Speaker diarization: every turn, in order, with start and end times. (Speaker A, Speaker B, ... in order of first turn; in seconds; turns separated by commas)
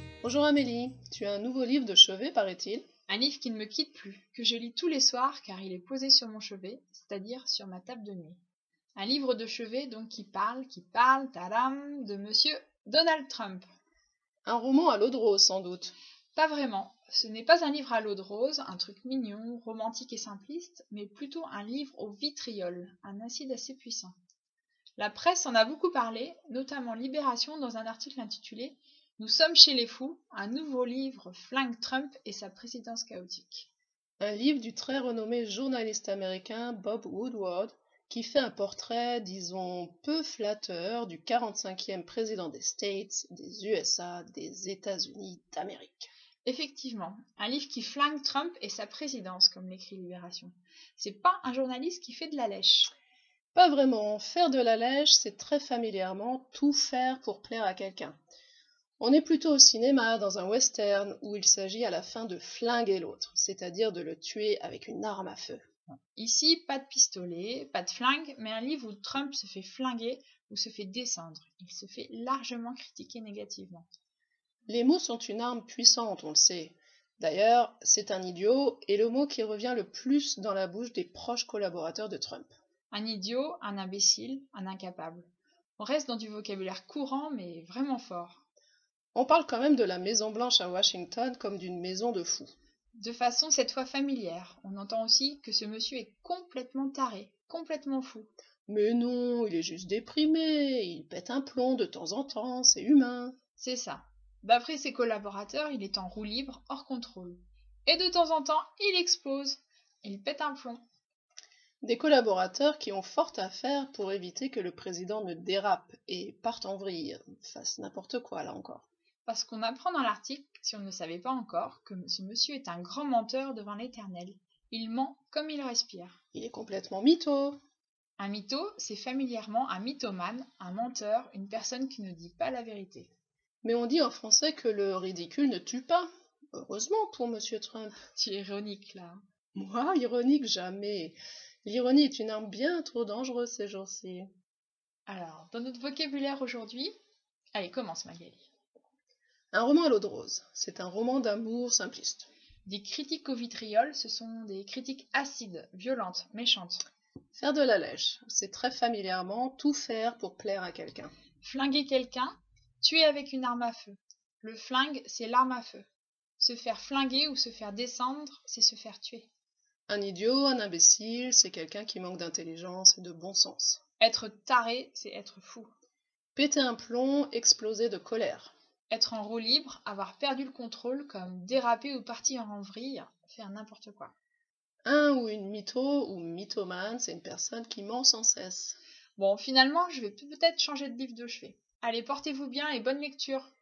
Speaker A: 0.2-2.8, Speaker B: 3.1-8.4, Speaker B: 8.9-13.7, Speaker A: 14.4-15.9, Speaker B: 16.3-24.1, Speaker B: 25.0-33.7, Speaker A: 34.2-46.1, Speaker B: 46.4-52.9, Speaker A: 53.5-58.2, Speaker A: 59.0-65.6, Speaker B: 66.1-73.9, Speaker A: 74.7-82.5, Speaker B: 82.9-88.4, Speaker A: 89.1-92.5, Speaker B: 93.0-98.3, Speaker A: 98.7-103.3, Speaker B: 103.6-110.8, Speaker A: 111.8-118.9, Speaker B: 119.2-126.2, Speaker A: 126.3-127.6, Speaker B: 128.2-133.1, Speaker A: 133.6-138.0, Speaker B: 138.1-139.2, Speaker A: 139.6-144.3, Speaker B: 145.1-146.9, Speaker B: 147.5-148.4, Speaker A: 149.5-152.3, Speaker B: 152.6-156.8, Speaker A: 157.3-161.1, Speaker B: 161.4-165.8, Speaker B: 166.4-169.3, Speaker A: 169.9-173.8, Speaker B: 174.0-175.7, Speaker A: 176.3-178.5, Speaker B: 178.9-184.1, Speaker A: 184.8-188.8, Speaker B: 189.2-193.5